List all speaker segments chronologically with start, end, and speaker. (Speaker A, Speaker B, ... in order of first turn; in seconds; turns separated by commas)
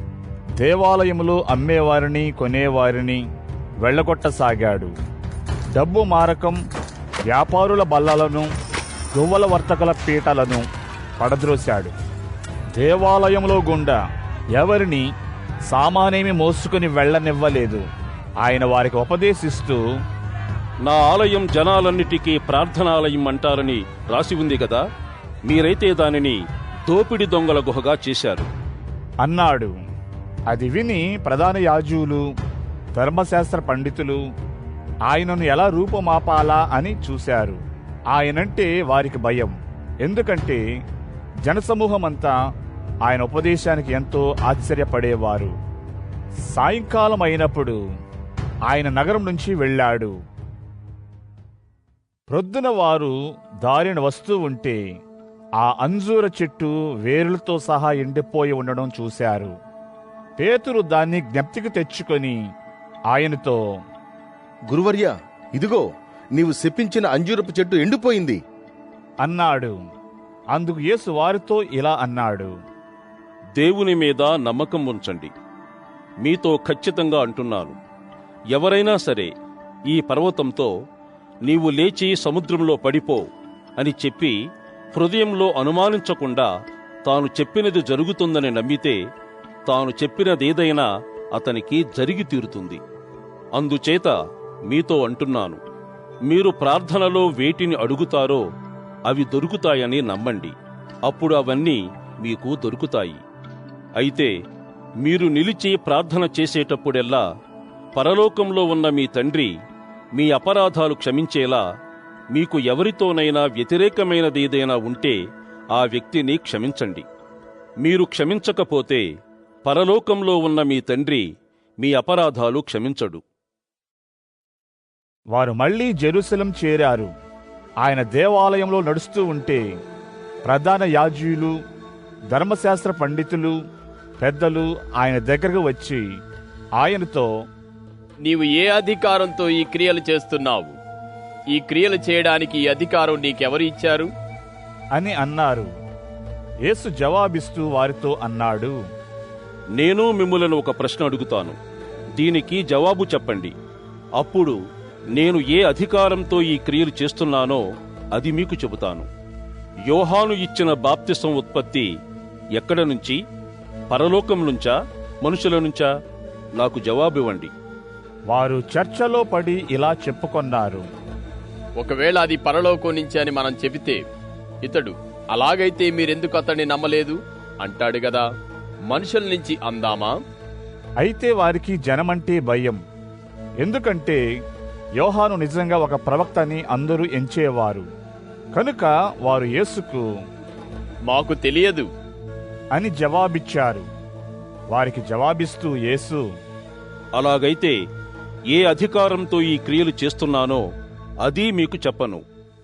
Speaker A: 0.6-3.2, Speaker A: 3.8-4.9, Speaker A: 5.8-6.6, Speaker A: 7.3-8.5, Speaker A: 9.2-10.7, Speaker A: 11.2-11.9, Speaker A: 12.8-14.0, Speaker A: 14.6-15.1, Speaker A: 15.7-17.9, Speaker A: 18.4-19.8, Speaker B: 20.9-24.8, Speaker B: 25.5-28.5, Speaker A: 29.2-29.8, Speaker A: 30.5-32.2, Speaker A: 33.0-34.2, Speaker A: 35.1-37.6, Speaker A: 38.1-40.6, Speaker A: 41.4-42.4, Speaker A: 43.1-45.5, Speaker A: 46.5-47.8, Speaker A: 48.7-50.1, Speaker A: 52.3-54.8, Speaker A: 55.6-59.5, Speaker A: 60.4-62.4, Speaker A: 63.1-63.6, Speaker C: 64.7-68.4, Speaker A: 69.2-69.8, Speaker A: 70.5-72.5, Speaker B: 73.6-75.3, Speaker B: 76.2-77.8, Speaker B: 78.5-79.3, Speaker B: 79.9-80.7, Speaker B: 81.5-83.3, Speaker B: 83.8-84.3, Speaker B: 84.9-86.5, Speaker B: 87.1-89.0, Speaker B: 89.7-92.8, Speaker B: 93.6-94.1, Speaker B: 94.7-95.6, Speaker B: 96.3-98.4, Speaker B: 99.1-100.5, Speaker B: 101.1-103.2, Speaker B: 104.0-104.3, Speaker B: 105.0-107.2, Speaker B: 108.0-109.5, Speaker B: 110.2-111.6, Speaker B: 112.3-115.2, Speaker B: 115.8-117.0, Speaker B: 117.8-119.0, Speaker B: 119.7-121.2, Speaker B: 121.8-123.2, Speaker A: 125.3-127.1, Speaker A: 127.8-129.6, Speaker A: 130.5-131.5, Speaker A: 132.3-133.5, Speaker A: 134.2-136.0, Speaker A: 136.8-137.3, Speaker D: 138.2-140.8, Speaker D: 141.5-144.1, Speaker A: 144.9-145.7, Speaker A: 146.7-148.8, Speaker B: 149.8-151.6, Speaker B: 152.2-153.5, Speaker B: 154.2-154.6, Speaker B: 155.2-157.6, Speaker B: 158.2-159.1, Speaker B: 159.9-161.9, Speaker B: 162.6-163.2, Speaker B: 163.9-165.9, Speaker B: 166.6-167.5, Speaker A: 168.3-170.9, Speaker D: 171.8-174.0, Speaker D: 174.6-178.2, Speaker D: 178.9-180.2, Speaker A: 181.0-182.8, Speaker A: 183.6-184.2, Speaker A: 185.0-187.9, Speaker A: 188.6-190.1, Speaker D: 191.1-191.9, Speaker A: 192.8-193.9, Speaker A: 194.7-196.2, Speaker B: 197.2-197.7, Speaker B: 198.5-200.6, Speaker B: 201.2-202.2